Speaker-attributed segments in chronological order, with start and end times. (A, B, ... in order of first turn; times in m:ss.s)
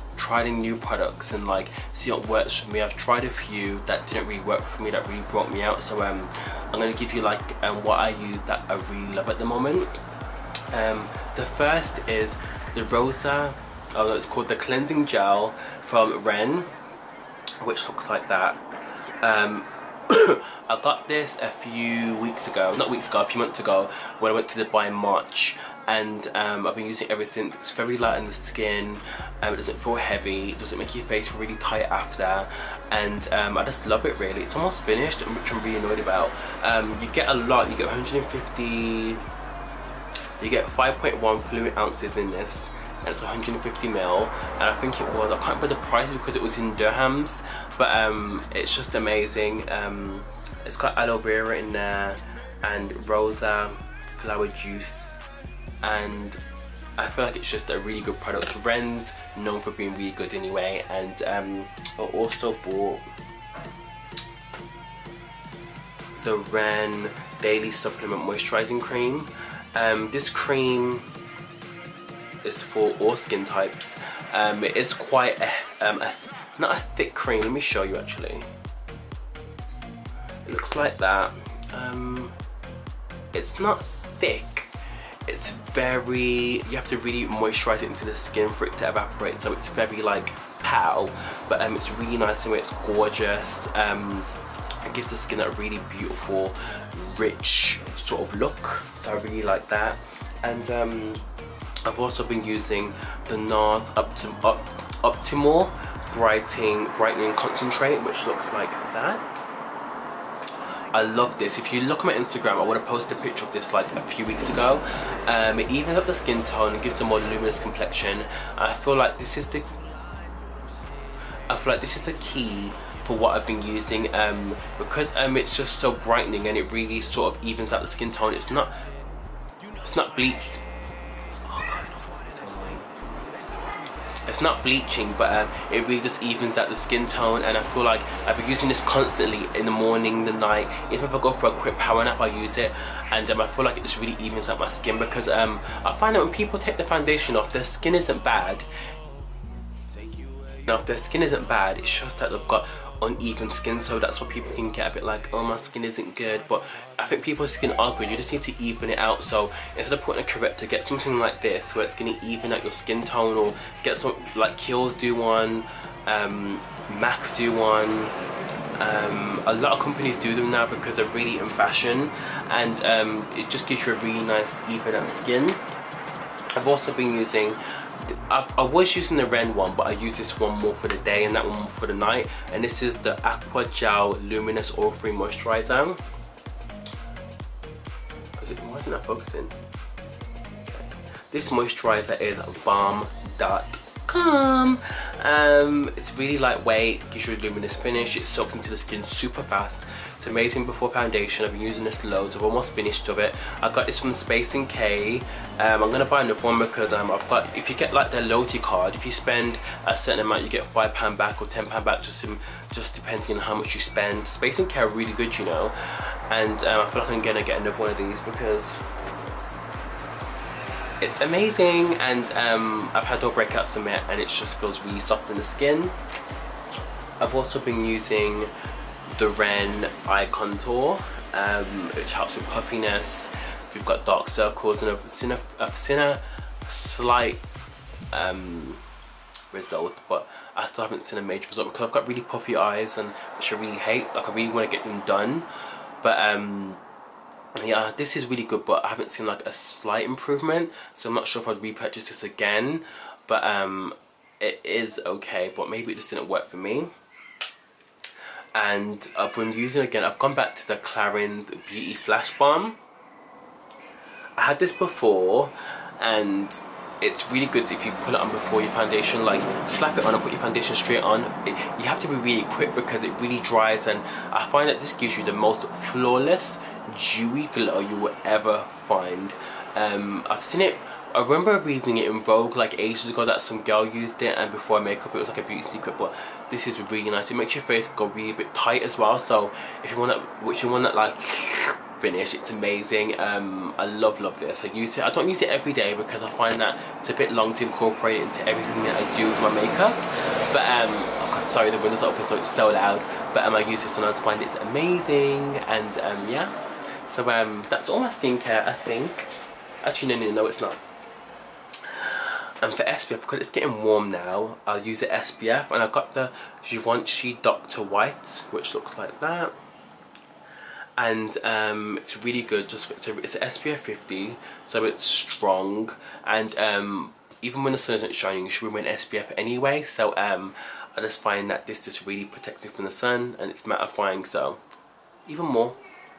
0:00.2-0:09.9 A
0:10.7-0:16.7 A
0:17.6-0:18.6 A
0:19.2-0:39.2 A
0:40.4-0:55.2 A
0:55.8-0:56.4 A
0:57.0-1:03.1 A
1:06.2-1:11.1 A
1:12.4-1:18.5 A
1:20.4-1:22.4 A
1:23.3-1:34.3 A
1:34.8-1:41.2 A
1:41.8-1:49.5 A
1:50.9-1:59.8 A
2:01.5-2:08.9 A
2:09.8-2:10.6 A
2:11.4-2:12.9 A
2:14.2-2:28.7 A
2:30.6-2:48.2 A
2:48.8-2:55.6 A
2:56.6-3:06.0 A
3:08.4-3:09.6 A
3:11.3-3:38.8 A
3:41.0-3:46.0 A
3:47.2-3:48.5 A
3:49.1-3:57.4 A
3:58.1-3:58.8 A
3:59.5-4:05.5 A
4:06.0-4:06.8 A
4:07.6-4:16.9 A
4:18.6-4:22.8 A
4:24.4-5:10.8 A
5:11.8-5:19.6 A
5:21.0-5:34.6 A
5:35.2-5:35.8 A